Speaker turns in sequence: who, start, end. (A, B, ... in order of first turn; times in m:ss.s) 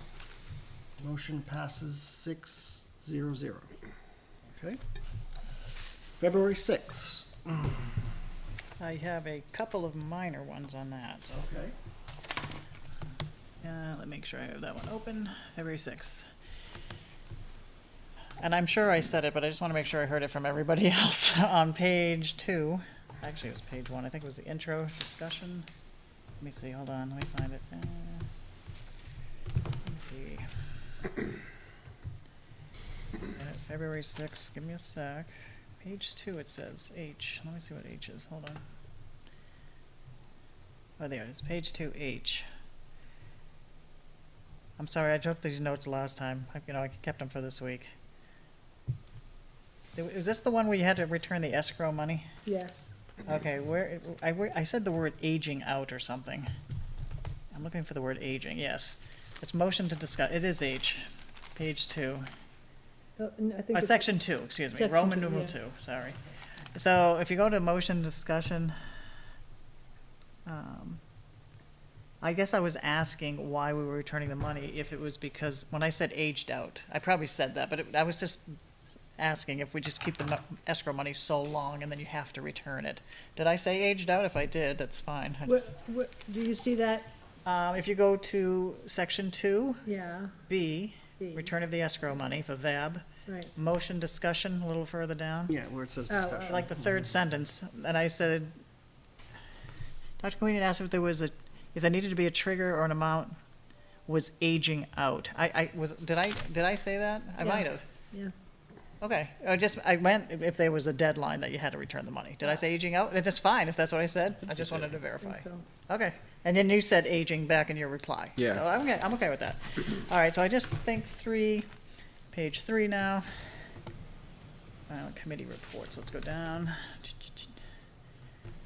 0:01.0-0:03.7 A
0:04.5-0:04.8 A
0:06.2-0:07.9 A
0:08.8-0:11.4 B
0:11.3-0:11.8 A
0:13.6-0:16.3 B
0:18.4-0:25.7 B
0:26.4-0:28.3 B
0:29.8-0:30.5 B
0:33.3-0:38.6 B
0:41.0-0:42.4 B
0:44.8-0:47.9 B
0:50.0-0:52.3 B
0:52.4-0:52.8 C
0:53.2-0:56.5 B
0:57.5-1:02.3 B
1:03.2-1:04.1 C
1:03.7-1:06.2 B
1:04.7-1:05.6 C
1:06.7-1:08.8 B
1:10.5-1:11.0 B
1:12.2-1:18.6 B
1:19.2-1:25.7 B
1:25.5-1:27.1 C
1:27.4-1:29.9 B
1:29.8-1:30.3 C
1:30.4-1:35.5 B
1:31.2-1:31.5 C
1:33.3-1:33.5 C
1:35.5-1:37.0 A
1:36.1-1:36.6 C
1:36.5-1:38.5 B
1:40.2-1:43.4 B
1:44.1-1:47.8 B
1:47.4-1:48.3 C
1:49.0-2:01.7 B
1:55.2-1:55.6 C
2:02.3-2:03.3 B
2:04.9-2:07.5 B